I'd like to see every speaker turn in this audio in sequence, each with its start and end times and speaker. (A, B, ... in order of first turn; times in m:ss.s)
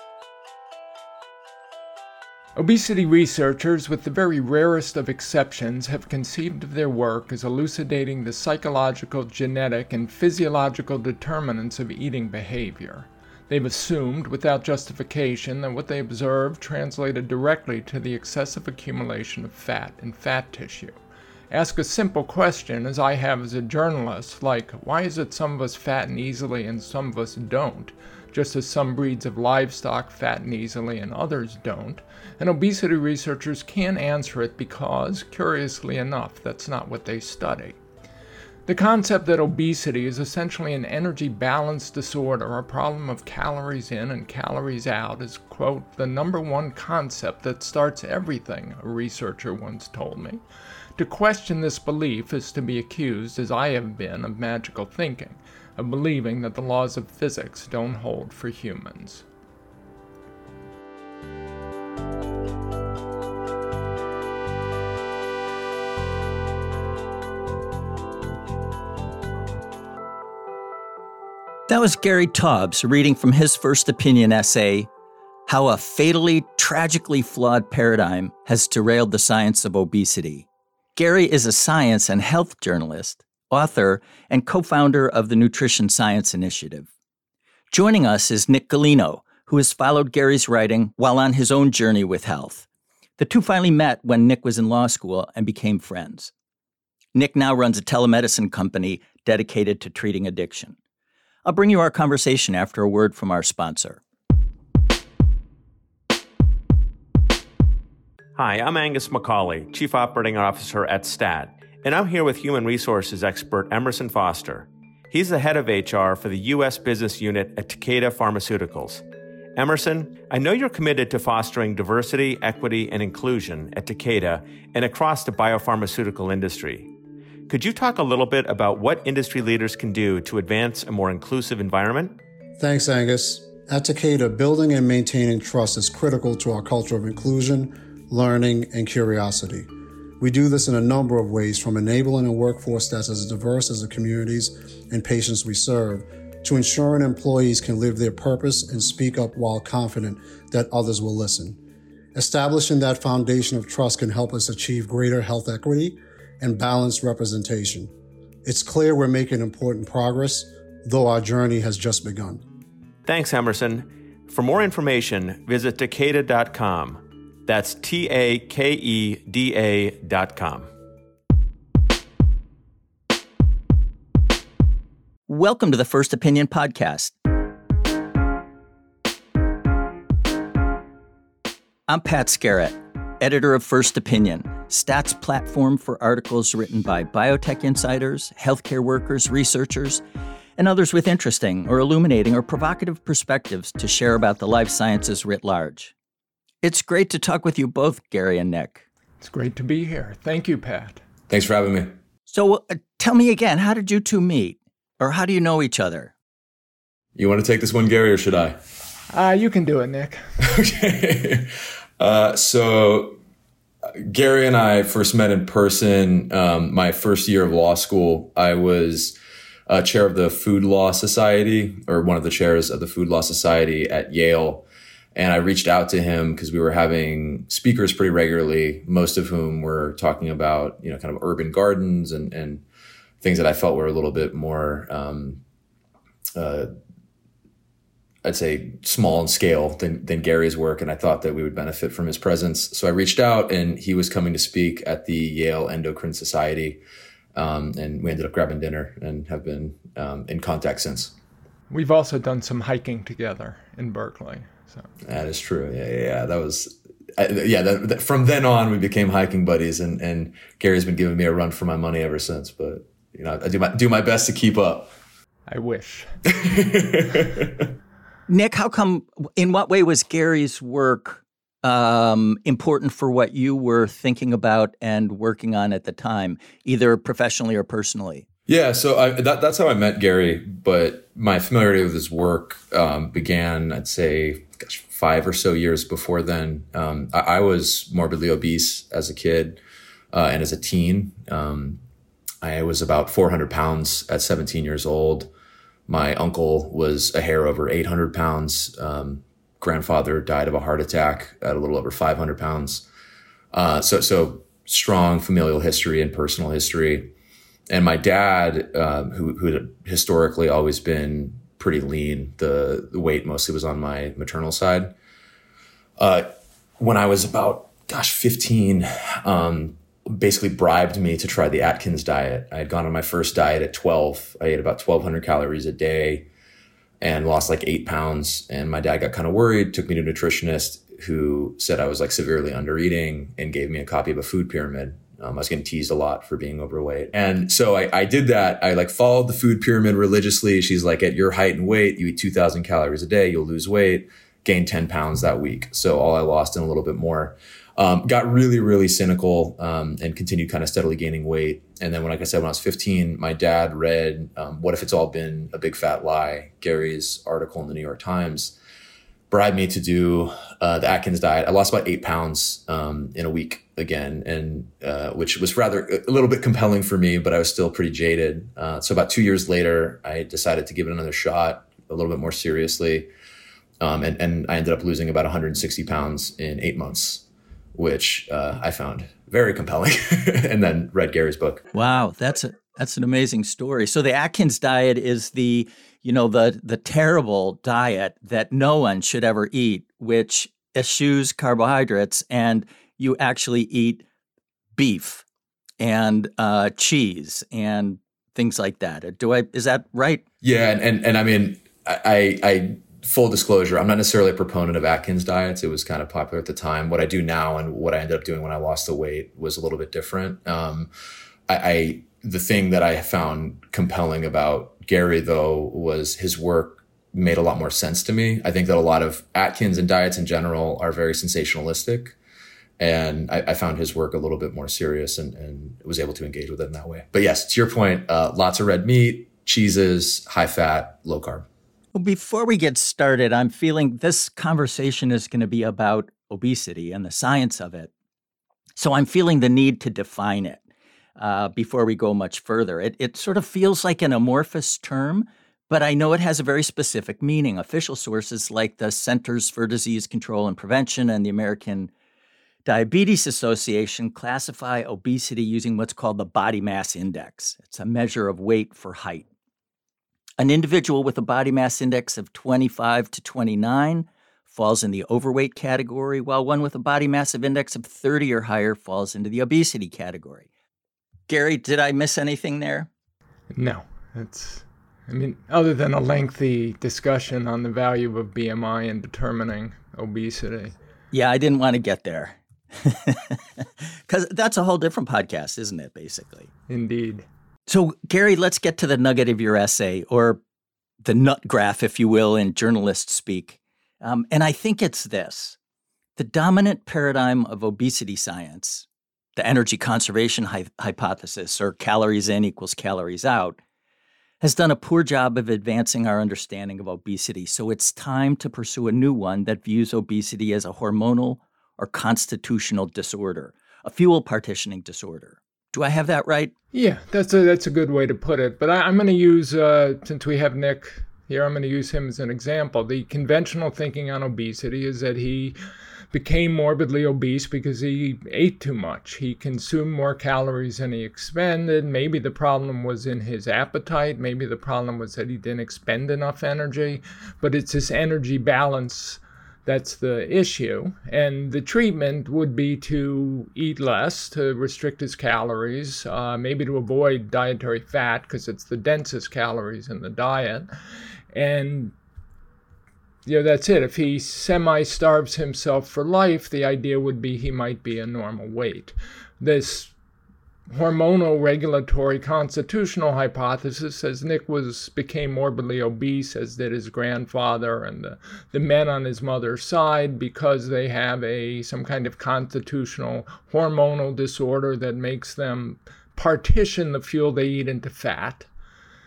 0:02.6-0:21.0 A
0:21.5-0:37.8 A
0:38.7-0:50.4 A
0:51.0-0:59.2 A
1:11.7-1:14.9 B
1:15.5-1:26.9 B
1:27.7-1:32.6 B
1:33.2-1:36.3 B
1:37.1-1:40.8 B
1:41.4-1:44.0 B
1:48.4-1:59.0 C
1:59.6-2:06.9 C
2:07.5-2:12.1 C
2:12.6-2:19.7 D
2:20.2-2:31.6 D
2:32.1-2:37.9 D
2:38.4-2:42.4 D
2:43.0-2:50.7 C
2:55.3-2:57.1 B
3:01.9-3:10.0 B
3:10.6-3:15.9 B
3:16.6-3:18.8 B
3:19.2-3:21.0 A
3:21.3-3:21.9 E
3:22.3-3:26.1 B
3:27.1-3:28.6 E
3:29.1-3:30.2 A
3:30.4-3:33.2 E
3:34.0-3:39.2 E
3:39.7-3:52.6 E
3:53.2-3:55.4 E
3:56.4-3:56.7 E
3:58.2-4:06.8 E
4:07.3-4:11.1 E
4:11.7-4:14.8 A
4:15.0-4:24.9 E
4:25.5-4:26.1 A
4:26.3-4:27.7 E
4:28.3-4:38.2 B
4:38.5-4:49.6 E
4:50.1-4:51.8 E
4:52.4-4:55.3 E
4:55.9-5:02.8 E
5:03.5-5:07.1 E
5:07.7-5:14.9 E
5:16.0-5:16.3 E
5:16.8-5:26.3 E
5:27.0-5:58.5 E
5:59.3-6:13.1 E
6:13.8-6:17.2 E
6:17.7-6:21.6 E
6:21.7-6:34.0 B
6:34.8-6:35.2 B
6:35.8-6:40.2 B
6:40.4-6:50.9 E
6:51.5-7:02.2 E
7:02.8-7:11.4 E
7:11.9-7:17.9 B
7:18.8-7:20.6 B
7:21.2-7:31.9 B
7:32.6-7:39.3 B
7:40.4-7:50.5 B
7:51.3-7:52.9 B
7:53.5-8:00.7 A
8:01.1-8:06.5 B
8:06.7-8:07.2 A
8:07.7-8:10.4 B
8:11.0-8:15.6 B
8:16.2-8:23.6 B
8:24.4-8:36.5 B
8:36.7-8:45.6 A
8:46.1-9:10.7 A
9:11.3-9:11.9 A
9:13.2-9:19.9 A
9:20.7-9:38.5 A